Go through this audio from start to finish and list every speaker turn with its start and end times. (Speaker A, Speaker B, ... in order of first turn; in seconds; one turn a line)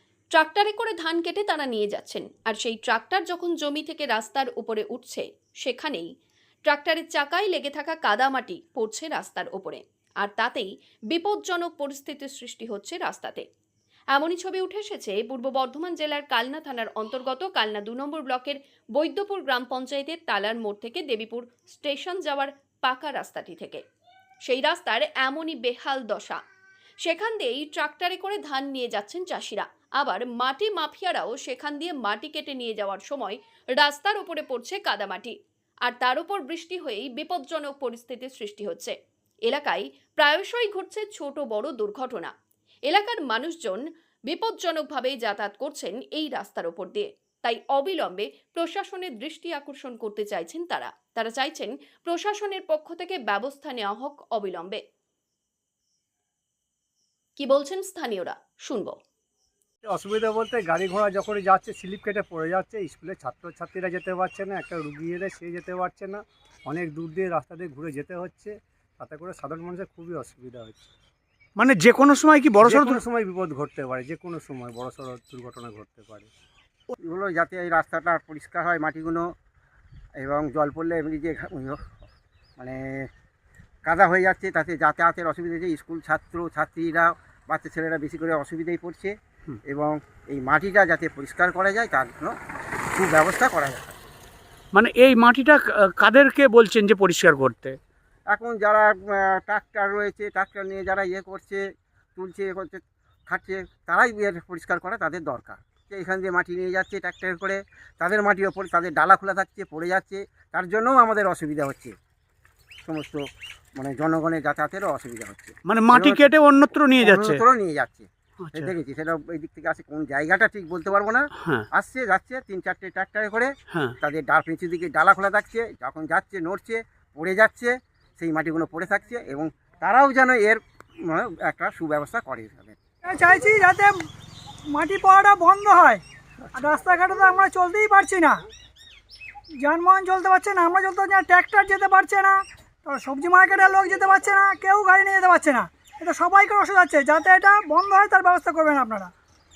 Speaker A: 0.3-6.1
Speaker A: 6.7-13.4
Speaker A: 14.1-23.8
Speaker A: 24.5-26.4
Speaker A: 27.0-42.3
Speaker A: 42.9-54.8
Speaker A: 57.4-59.0
Speaker B: 59.9-70.9
Speaker C: 71.6-73.0
Speaker B: 72.6-76.3
Speaker D: 77.0-79.3
Speaker D: 80.2-81.8
Speaker D: 83.9-89.2
Speaker D: 89.7-92.3
Speaker D: 93.0-94.0
Speaker C: 94.7-97.8
Speaker D: 98.3-101.6
Speaker D: 102.2-112.0
Speaker D: 112.8-113.2
Speaker D: 113.8-116.2
Speaker C: 115.7-117.4
Speaker D: 117.0-132.8
Speaker C: 118.4-118.7
Speaker C: 121.4-121.7
Speaker E: 133.0-133.9
Speaker E: 134.7-136.0
Speaker E: 136.5-138.4
Speaker E: 139.6-149.1